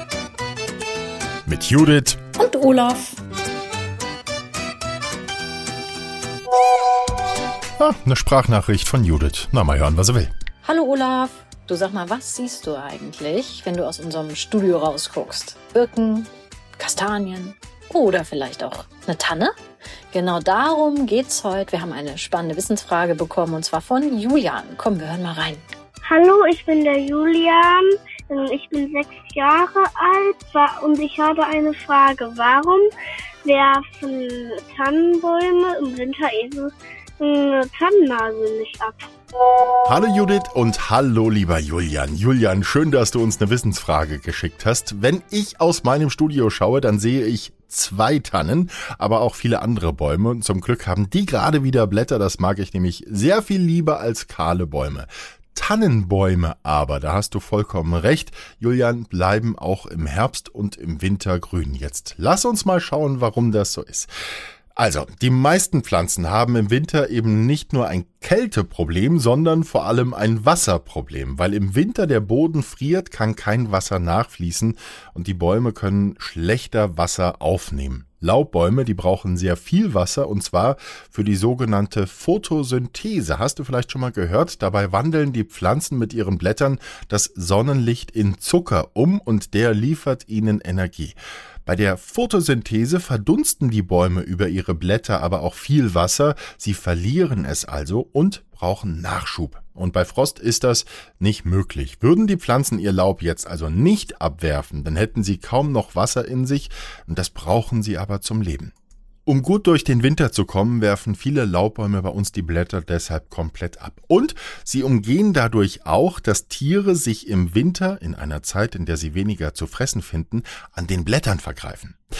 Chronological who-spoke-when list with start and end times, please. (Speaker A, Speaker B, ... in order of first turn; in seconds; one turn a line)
Speaker A: 1.4-2.2
Speaker B: 2.4-3.2
Speaker A: 7.8-10.3
Speaker B: 10.6-19.6
Speaker B: 20.1-25.6
Speaker C: 26.1-32.9
Speaker C: 33.4-39.1
Speaker A: 39.8-64.1
Speaker A: 64.8-108.7
Speaker A: 109.2-122.0